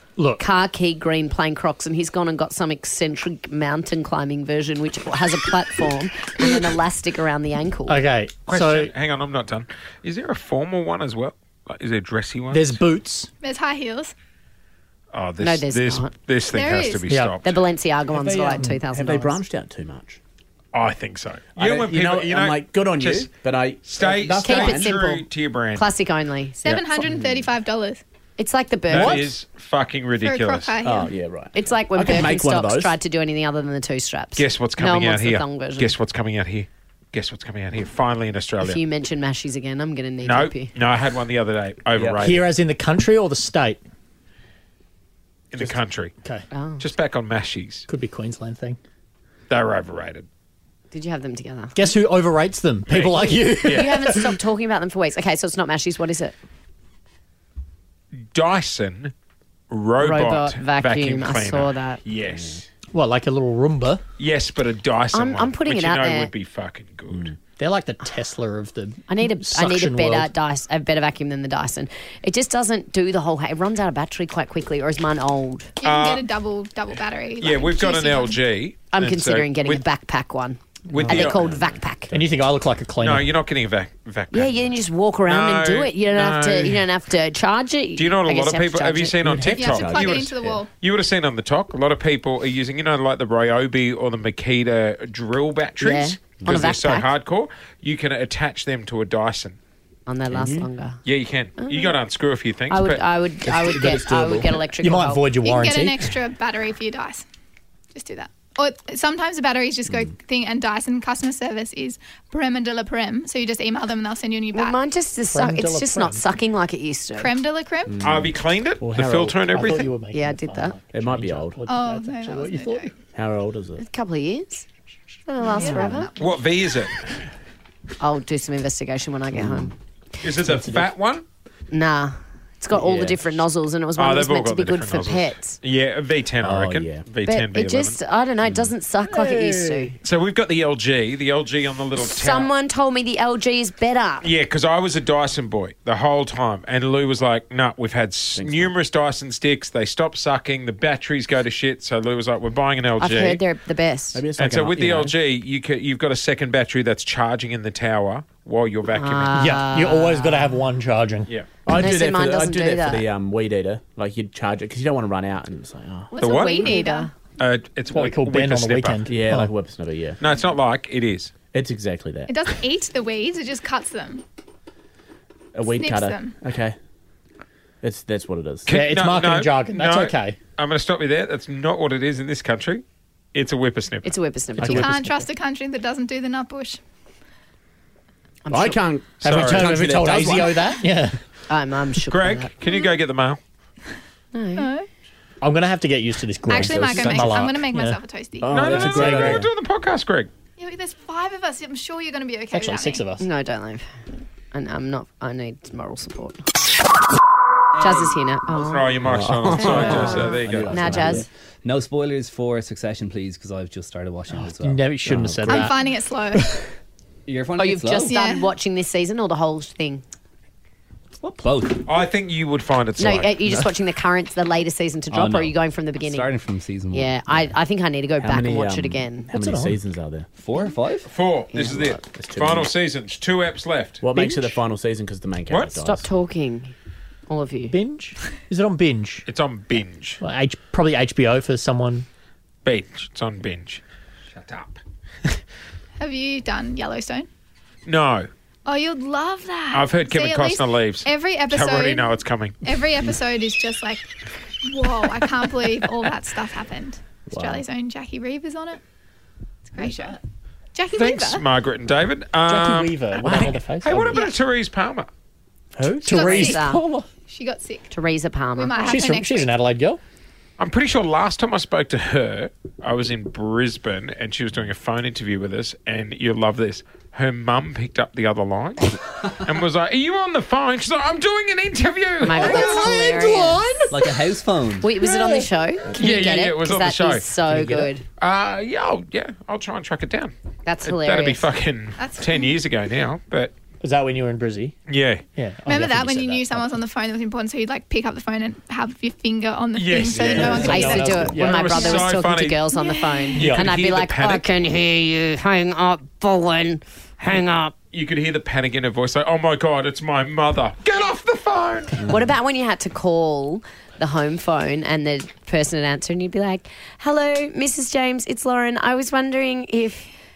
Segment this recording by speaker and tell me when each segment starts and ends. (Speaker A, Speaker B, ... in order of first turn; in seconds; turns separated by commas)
Speaker A: 0.2-0.4, Speaker B: 0.3-8.0, Speaker A: 7.9-8.9, Speaker C: 8.5-12.8, Speaker A: 12.5-13.3, Speaker D: 13.4-14.1, Speaker C: 15.1-17.6, Speaker B: 15.4-16.1, Speaker D: 16.5-17.1, Speaker A: 17.1-17.3, Speaker B: 17.4-19.4, Speaker E: 18.1-20.2, Speaker A: 18.6-18.8, Speaker C: 20.7-23.3, Speaker E: 21.6-24.9, Speaker C: 23.8-25.9, Speaker A: 24.0-24.3, Speaker B: 24.4-27.2, Speaker D: 26.6-28.0, Speaker B: 28.4-29.3, Speaker C: 28.9-30.8, Speaker A: 28.9-29.2, Speaker D: 30.2-31.1, Speaker E: 30.8-33.0, Speaker B: 31.5-35.9, Speaker C: 34.4-38.8, Speaker B: 38.6-40.7, Speaker C: 40.2-42.5, Speaker E: 42.0-42.3, Speaker A: 42.2-43.8, Speaker C: 45.5-46.1, Speaker B: 46.5-46.8, Speaker C: 46.8-47.9, Speaker A: 47.9-48.8, Speaker C: 49.5-50.3, Speaker B: 50.9-51.8, Speaker A: 51.7-54.3, Speaker C: 52.9-54.0, Speaker B: 53.6-56.3, Speaker C: 58.3-59.1, Speaker C: 59.7-62.6, Speaker B: 60.0-62.0, Speaker E: 62.3-62.6, Speaker A: 62.9-64.0, Speaker C: 64.2-67.4, Speaker B: 65.1-66.3, Speaker A: 67.6-70.3, Speaker B: 69.1-75.7, Speaker D: 75.8-78.4, Speaker C: 75.8-76.3, Speaker C: 77.4-79.8, Speaker B: 78.9-82.1, Speaker C: 80.9-81.4, Speaker E: 81.0-81.8, Speaker A: 82.1-83.3, Speaker C: 83.0-84.7, Speaker B: 84.3-89.1, Speaker C: 85.2-86.8, Speaker C: 88.0-99.6, Speaker A: 89.2-89.7, Speaker D: 89.6-90.7, Speaker E: 89.6-90.5, Speaker B: 95.8-97.1, Speaker B: 100.1-101.0, Speaker E: 100.3-100.7, Speaker C: 101.0-103.0, Speaker B: 101.6-102.0, Speaker B: 102.7-105.2, Speaker E: 103.4-104.7, Speaker A: 104.8-106.2, Speaker D: 105.4-107.2, Speaker D: 107.9-114.8, Speaker B: 114.5-117.3, Speaker A: 115.3-116.2, Speaker D: 117.2-117.9, Speaker E: 117.9-119.5, Speaker C: 118.0-119.9, Speaker A: 119.4-122.9, Speaker B: 120.1-120.8, Speaker E: 120.9-121.7, Speaker D: 121.7-122.9, Speaker E: 123.1-123.8, Speaker B: 123.8-124.7, Speaker B: 125.3-126.1, Speaker D: 125.5-125.9, Speaker A: 125.6-126.0, Speaker C: 126.2-127.2, Speaker B: 128.0-129.7, Speaker E: 129.3-129.7, Speaker C: 130.2-131.2, Speaker A: 130.4-130.9, Speaker B: 131.7-135.6, Speaker E: 132.7-133.4, Speaker C: 134.0-138.0, Speaker E: 136.4-137.1, Speaker B: 137.2-139.9, Speaker E: 138.4-139.9, Speaker C: 140.0-142.5, Speaker B: 142.0-144.3, Speaker C: 144.2-153.4, Speaker E: 148.3-148.7, Speaker B: 153.0-154.2, Speaker E: 154.1-155.1, Speaker C: 154.3-159.4, Speaker B: 158.9-160.6, Speaker A: 159.3-161.3, Speaker E: 161.6-166.1, Speaker B: 161.7-163.0, Speaker B: 166.1-167.1, Speaker D: 166.1-167.1, Speaker C: 166.2-166.7, Speaker C: 167.4-169.1, Speaker A: 167.9-169.5, Speaker E: 169.1-170.2, Speaker C: 170.2-171.3, Speaker E: 171.5-172.4, Speaker D: 172.3-174.2, Speaker E: 175.5-176.8, Speaker D: 175.7-176.4, Speaker E: 177.8-178.7, Speaker C: 178.7-182.8, Speaker A: 178.7-180.4, Speaker C: 183.3-184.1, Speaker B: 184.0-184.9, Speaker A: 184.6-185.2, Speaker E: 184.6-184.9, Speaker D: 184.8-186.8, Speaker B: 188.4-188.8, Speaker E: 188.5-190.8, Speaker C: 189.2-189.8, Speaker A: 189.2-191.2, Speaker B: 191.5-192.5, Speaker C: 192.1-193.4, Speaker D: 192.6-192.9, Speaker B: 194.3-194.7, Speaker D: 194.6-194.9, Speaker A: 195.4-198.0, Speaker D: 196.4-198.5, Speaker E: 196.6-197.6, Speaker E: 198.4-199.5, Speaker A: 198.5-199.4, Speaker C: 198.5-200.3, Speaker D: 200.6-203.0, Speaker A: 202.5-203.2, Speaker B: 203.2-203.8, Speaker B: 204.5-206.4, Speaker B: 207.8-208.9, Speaker F: 207.8-208.1, Speaker C: 208.7-210.9, Speaker E: 209.0-210.3, Speaker B: 209.5-211.3, Speaker F: 209.6-214.9, Speaker E: 210.8-211.2, Speaker A: 214.3-215.7, Speaker E: 215.0-215.8, Speaker D: 215.5-216.5, Speaker A: 216.3-216.6, Speaker F: 217.3-218.1, Speaker B: 217.6-220.0, Speaker D: 218.1-218.5, Speaker F: 221.2-221.8, Speaker C: 221.8-223.3, Speaker B: 223.0-226.3, Speaker F: 225.1-227.5, Speaker B: 226.9-229.3, Speaker E: 228.2-230.3, Speaker A: 229.3-229.8, Speaker F: 230.4-231.1, Speaker C: 231.1-234.0, Speaker B: 231.5-232.0, Speaker E: 232.0-232.7, Speaker E: 234.0-236.1, Speaker A: 234.2-234.5, Speaker C: 235.5-235.7, Speaker B: 235.8-236.7, Speaker B: 237.3-237.8, Speaker A: 237.7-239.2, Speaker C: 239.2-240.2, Speaker A: 240.2-242.1, Speaker C: 242.6-245.3, Speaker D: 246.0-247.3, Speaker C: 247.8-248.3, Speaker D: 248.6-254.1, Speaker C: 249.7-252.6, Speaker D: 254.6-258.8, Speaker E: 257.3-257.6, Speaker D: 259.7-260.2, Speaker D: 260.7-261.4, Speaker C: 260.9-265.1, Speaker A: 262.4-264.2, Speaker D: 264.1-264.3, Speaker E: 265.8-266.2, Speaker A: 265.8-267.1, Speaker B: 266.1-266.8, Speaker D: 266.1-266.6, Speaker D: 267.2-267.9, Speaker B: 267.9-269.0, Speaker D: 268.5-269.5, Speaker A: 268.8-270.0, Speaker C: 270.6-282.9, Speaker B: 282.2-283.6, Speaker A: 282.4-284.1, Speaker F: 283.9-284.9, Speaker B: 284.8-288.0, Speaker A: 285.0-285.5, Speaker C: 285.9-287.3, Speaker C: 288.2-290.3, Speaker B: 290.6-291.5, Speaker C: 290.8-293.5, Speaker D: 292.0-292.6, Speaker A: 293.8-294.7, Speaker C: 294.9-295.2, Speaker A: 295.4-296.8, Speaker D: 295.6-301.2, Speaker C: 299.7-302.7, Speaker A: 300.0-302.0, Speaker E: 300.2-300.9, Speaker B: 300.6-307.7, Speaker D: 301.7-302.1, Speaker D: 302.7-303.5, Speaker C: 303.4-304.5, Speaker A: 303.4-303.7, Speaker C: 307.9-312.0, Speaker B: 312.0-320.1